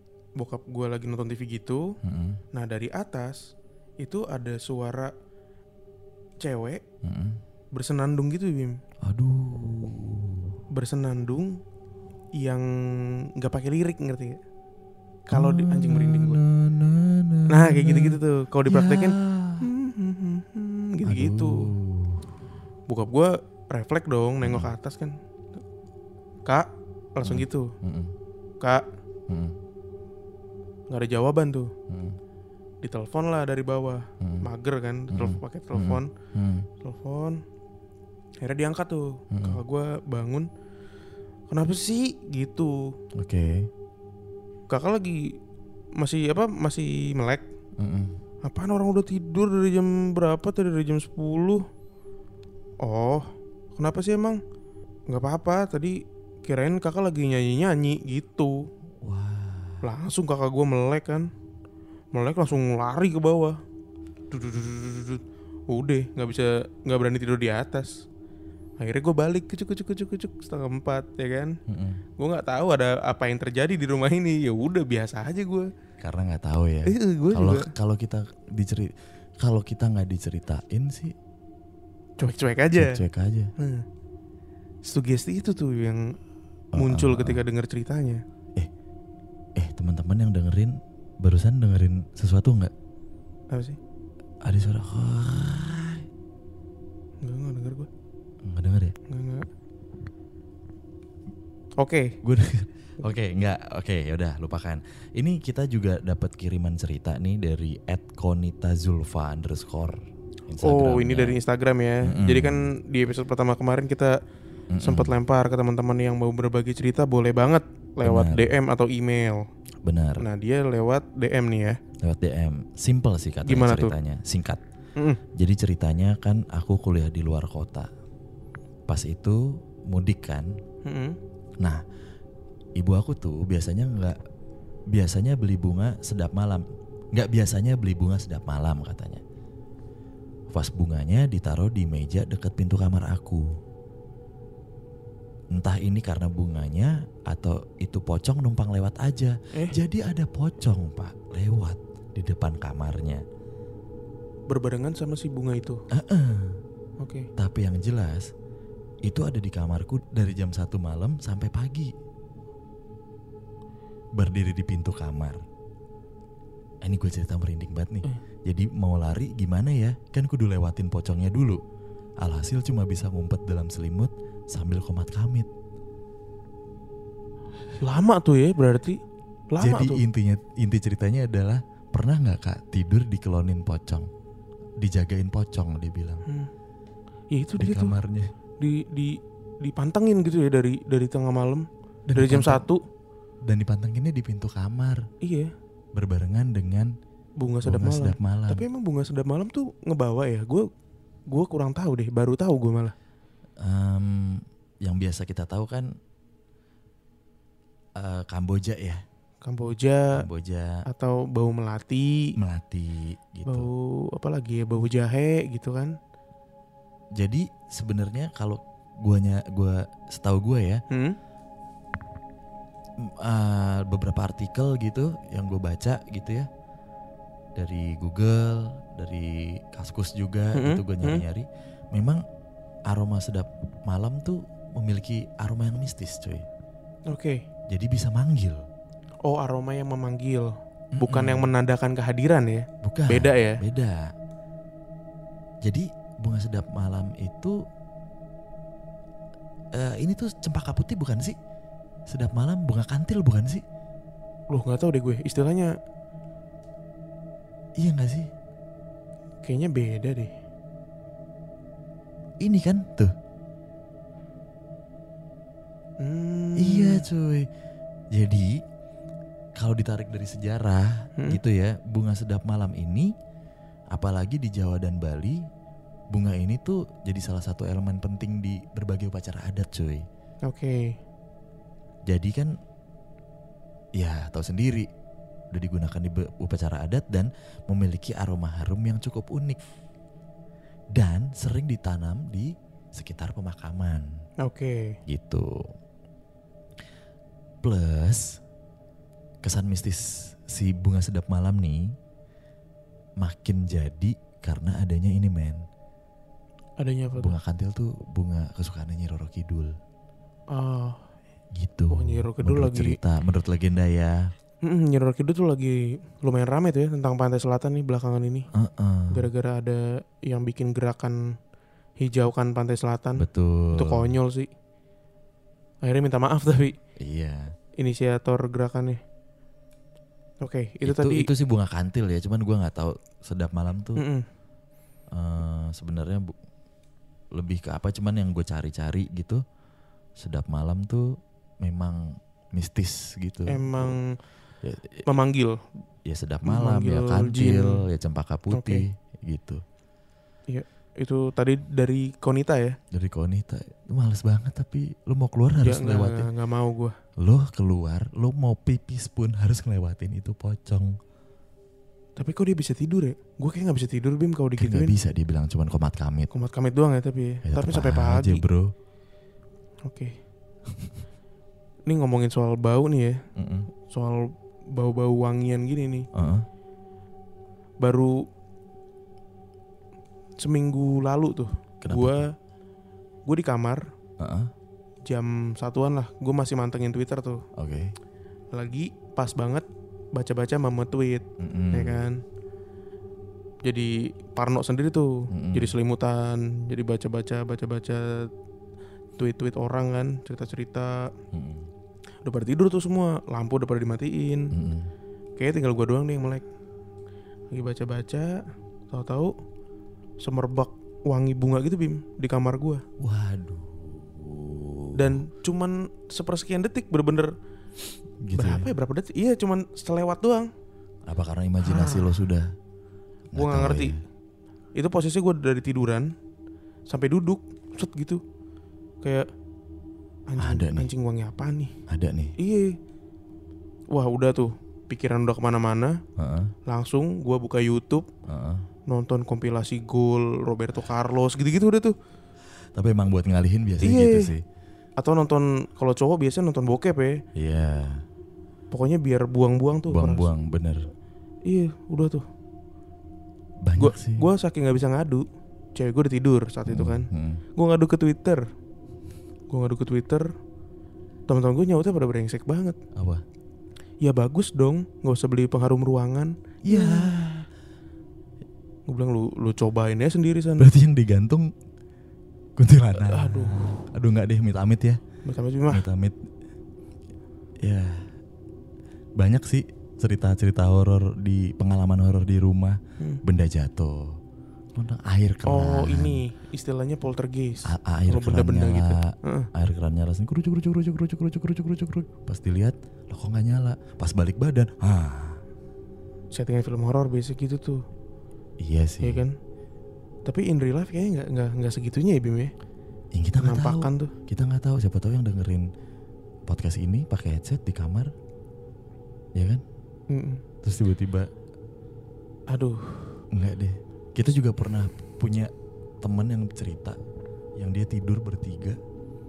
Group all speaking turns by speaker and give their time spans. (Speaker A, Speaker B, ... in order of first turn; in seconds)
Speaker A: 0.4-2.0, 2.5-5.1, 6.4-6.8, 7.7-8.8, 10.7-11.6, 12.4-14.4, 15.3-16.4, 17.5-21.7, 22.9-25.2, 26.4-27.7, 30.9-31.7, 32.8-36.1, 36.8-37.4, 38.4-40.5, 41.5-42.9, 44.7-45.4, 46.0-47.5, 48.4-51.6, 52.8-54.4, 55.1-58.7, 59.8-61.3, 62.1-63.6, 64.3-68.0, 68.8-71.6, 72.2-75.7, 76.8-77.7, 82.2-83.0, 83.6-83.8, 84.9-86.2, 86.8-88.2, 93.5-93.8, 97.2-97.9, 99.1-99.5, 101.8-102.2, 110.6-114.2, 114.8-119.5, 120.2-121.8, 123.4-123.9, 130.8-131.2, 149.5-149.8, 154.5-155.8, 157.0-157.3, 177.8-180.0, 187.3-187.9, 188.6-192.8, 195.2-195.5, 197.4-200.7, 201.3-202.9, 209.4-210.2, 210.8-212.3, 213.4-216.0, 220.9-221.2, 230.5-231.2, 237.1-237.4, 239.2-243.6, 254.5-255.7, 259.4-260.3, 266.0-267.0, 280.4-281.0, 294.4-295.0, 306.8-307.3, 310.5-311.1, 311.9-313.0, 314.6-318.5, 319.1-321.3, 322.0-324.5, 325.8-326.8, 327.8-329.0, 330.4-331.3, 333.9-334.2, 343.5-344.2, 345.1-345.6, 346.4-347.8, 348.5-348.8, 350.5-352.8, 355.6-356.9, 362.2-364.9, 366.3-368.4, 369.8-370.1, 371.9-373.2, 373.9-376.1, 377.8-378.2, 380.4-382.3, 383.3-383.9, 385.1-387.4, 388.5-392.2, 393.6-398.3, 399.2-401.1, 402.2-404.5, 405.4-406.4, 407.5-409.3, 410.2-412.8, 414.9-417.3, 418.3-420.5, 421.6-422.1, 423.4-423.9, 424.7-426.1, 426.9-428.2, 429.0-429.3, 430.3-431.7, 432.4-432.8, 433.9-436.0, 436.6-438.1, 438.9-441.9, 443.8-444.3, 445.0-447.2, 448.7-450.3, 451.4-452.2, 453.8-458.4, 459.5-460.3, 461.3-462.8, 464.0-467.3, 468.9-470.7, 472.9-473.7, 475.2-475.8, 485.4-489.5, 496.3-497.8, 499.0-499.4, 500.2-502.5, 503.4-504.1, 510.1-510.4, 512.5-513.2
Speaker B: 2.0-2.4, 7.0-7.4, 9.0-10.5, 15.3-19.6, 21.0-22.2, 24.4-24.7, 27.2-28.1, 29.3-29.6, 31.9-32.2, 34.2-34.5, 35.1-36.7, 39.3-39.6, 43.2-43.7, 47.8-48.2, 59.0-59.9, 71.7-72.0, 76.0-81.1, 82.7-83.5, 86.7-87.4, 89.6-92.7, 94.4-96.1, 98.4-98.9, 102.2-111.4, 112.0-112.7, 114.7-115.1, 118.0-118.5, 119.8-120.2, 122.0-124.6, 125.3-127.9, 128.9-130.6, 132.8-134.2, 134.9-139.2, 140.5-143.6, 145.5-153.2, 155.9-156.6, 157.4-158.3, 159.0-161.9, 164.2-165.4, 166.8-171.6, 172.2-175.5, 179.6-184.1, 184.8-186.2, 187.6-188.3, 192.1-192.7, 193.4-195.1, 195.9-196.9, 197.6-198.6, 203.6-206.0, 207.9-209.0, 210.1-210.8, 212.4-213.7, 217.2-220.8, 223.0-226.5, 227.6-232.2, 232.9-236.5, 237.7-238.7, 240.9-241.5, 242.8-244.1, 245.6-247.6, 249.7-251.4, 252.1-253.6, 257.8-258.3, 262.4-263.1, 266.6-267.5, 268.1-268.6, 269.6-273.1, 273.9-275.4, 276.1-280.1, 282.1-282.5, 284.0-284.9, 285.5-289.6, 290.9-294.2, 295.1-295.6, 297.6-298.4, 299.4-301.9, 303.2-305.6, 307.1-309.8, 311.5-314.3, 318.5-319.3, 323.2-324.1, 327.0-327.5, 330.8-334.0, 335.1-336.3, 337.3-339.4, 340.2-343.9, 344.6-345.1, 346.1-349.6, 352.9-356.3, 357.2-361.0, 364.6-366.3, 367.4-368.7, 373.4-373.7, 376.1-376.4, 381.8-382.3, 384.2-384.5, 387.6-387.9, 391.4-392.1, 395.3-395.7, 401.3-401.7, 404.5-404.9, 413.0-415.2, 418.2-418.7, 421.1-422.5, 423.3-424.0, 430.4-430.9, 431.9-432.3, 436.2-436.5, 438.3-438.6, 442.7-444.4, 447.3-448.0, 449.9-450.9, 453.6-454.3, 456.7-457.4, 462.9-463.2, 466.7-467.4, 470.6-471.5, 472.6-475.0, 475.7-476.2, 477.6-478.1, 479.2-484.2, 484.7-486.2, 487.6-495.4, 498.6-499.2, 503.1-505.7, 506.5-508.1, 509.3-509.6, 510.6-511.3, 513.3-517.0, 517.6-518.8